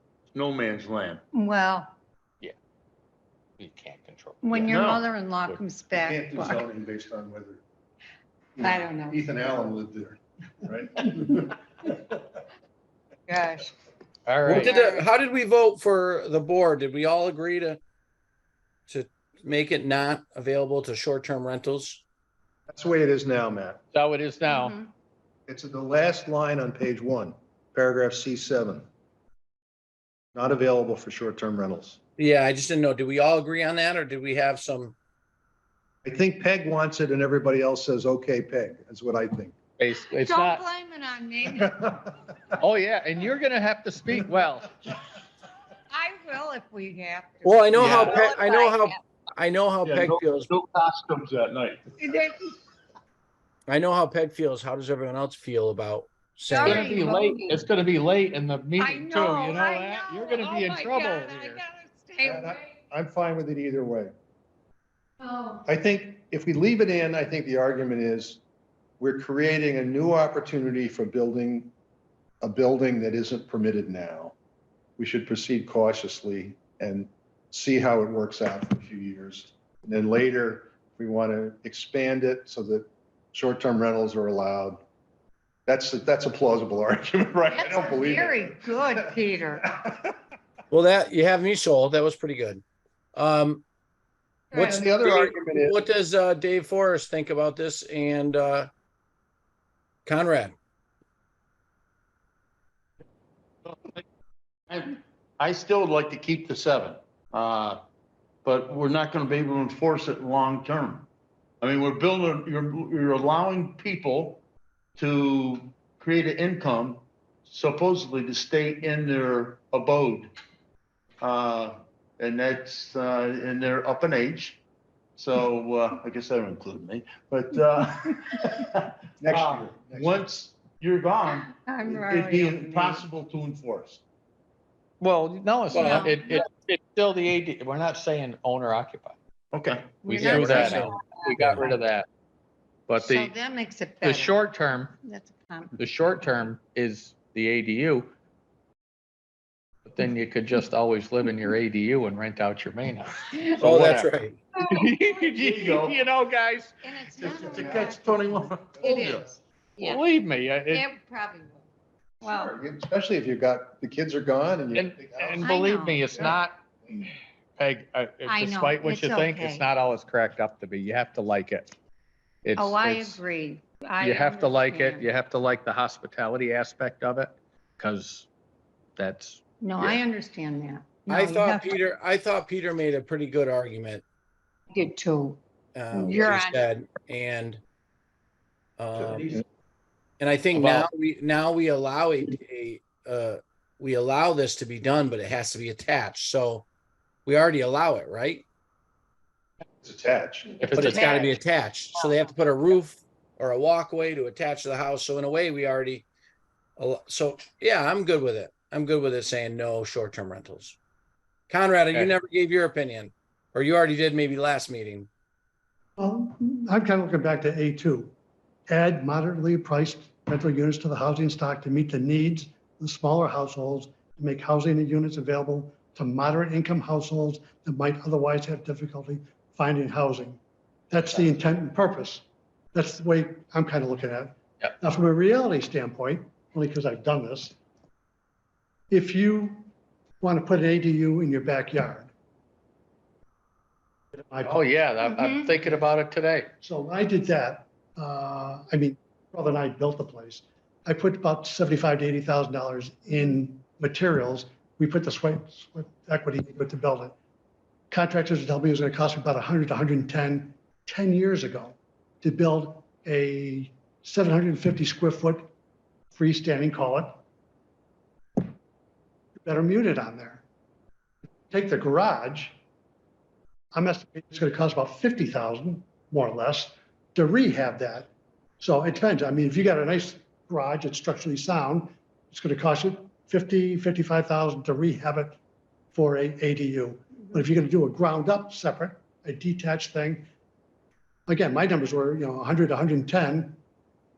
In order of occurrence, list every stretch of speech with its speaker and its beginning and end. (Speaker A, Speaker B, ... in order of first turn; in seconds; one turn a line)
Speaker A: 0.3-1.2
Speaker B: 1.3-1.9
Speaker C: 3.6-4.9
Speaker B: 4.4-6.6
Speaker A: 4.7-5.0
Speaker D: 5.9-7.6
Speaker D: 8.6-11.6
Speaker B: 8.6-9.2
Speaker B: 13.3-13.7
Speaker C: 14.3-14.8
Speaker E: 14.4-17.8
Speaker B: 14.6-15.1
Speaker E: 18.9-22.0
Speaker D: 22.7-23.8
Speaker C: 23.9-24.8
Speaker B: 24.5-24.9
Speaker D: 25.5-28.9
Speaker D: 30.4-32.0
Speaker E: 32.2-35.0
Speaker D: 36.0-39.5
Speaker C: 39.8-40.6
Speaker B: 40.2-42.1
Speaker C: 42.6-44.7
Speaker B: 45.9-49.0
Speaker E: 47.4-50.5
Speaker C: 47.7-48.2
Speaker A: 49.8-52.0
Speaker B: 52.0-52.5
Speaker E: 53.7-57.0
Speaker B: 56.5-57.7
Speaker C: 56.6-61.6
Speaker B: 58.8-62.7
Speaker D: 62.2-64.1
Speaker B: 65.2-65.6
Speaker D: 65.7-68.4
Speaker D: 69.0-71.7
Speaker D: 72.4-74.3
Speaker D: 75.0-84.8
Speaker D: 85.7-89.1
Speaker B: 87.5-89.7
Speaker E: 90.7-92.6
Speaker E: 93.2-93.6
Speaker B: 94.5-94.8
Speaker E: 94.5-98.7
Speaker D: 94.5-95.9
Speaker E: 100.1-100.6
Speaker A: 103.7-104.0
Speaker A: 104.7-107.8
Speaker A: 108.5-111.1
Speaker A: 111.6-114.4
Speaker A: 115.0-120.3
Speaker A: 121.2-124.6
Speaker A: 125.2-134.0
Speaker D: 129.2-130.2
Speaker B: 131.4-133.1
Speaker C: 135.0-139.2
Speaker E: 135.7-136.1
Speaker B: 135.8-136.5
Speaker A: 139.5-140.8
Speaker B: 140.0-141.3
Speaker E: 140.1-141.7
Speaker C: 140.1-142.1
Speaker C: 142.9-143.3
Speaker B: 143.0-144.4
Speaker C: 144.0-145.0
Speaker B: 145.0-145.8
Speaker C: 145.8-148.1
Speaker C: 149.9-156.8
Speaker B: 153.3-153.6
Speaker E: 153.6-154.4
Speaker A: 155.4-156.0
Speaker B: 156.8-160.0
Speaker A: 157.2-159.3
Speaker D: 157.3-157.9
Speaker C: 159.8-160.8
Speaker B: 160.7-161.7
Speaker B: 162.2-162.6
Speaker D: 162.2-166.4
Speaker C: 164.7-171.7
Speaker B: 165.4-166.4
Speaker B: 168.2-169.7
Speaker C: 172.4-173.2
Speaker B: 172.6-175.1
Speaker C: 174.0-178.3
Speaker C: 179.0-180.0
Speaker B: 179.6-181.8
Speaker E: 181.1-184.0
Speaker B: 184.7-185.4
Speaker E: 185.8-187.6
Speaker B: 185.9-186.6
Speaker E: 188.8-189.3
Speaker E: 190.2-196.7
Speaker C: 190.5-190.9
Speaker E: 197.3-198.4
Speaker D: 199.8-200.9
Speaker C: 200.6-201.3
Speaker E: 200.7-206.1
Speaker B: 200.9-201.3
Speaker B: 201.9-202.3
Speaker E: 206.8-210.8
Speaker E: 211.5-215.1
Speaker F: 216.0-218.1
Speaker F: 218.7-237.6
Speaker F: 238.9-239.7
Speaker F: 240.2-242.1
Speaker F: 244.2-244.7
Speaker C: 244.4-246.5
Speaker B: 245.1-245.5
Speaker F: 246.6-257.1
Speaker F: 257.9-265.5
Speaker F: 266.1-267.2
Speaker F: 269.4-270.4
Speaker F: 271.5-272.6
Speaker F: 273.7-285.4
Speaker F: 285.9-290.3
Speaker F: 291.3-293.6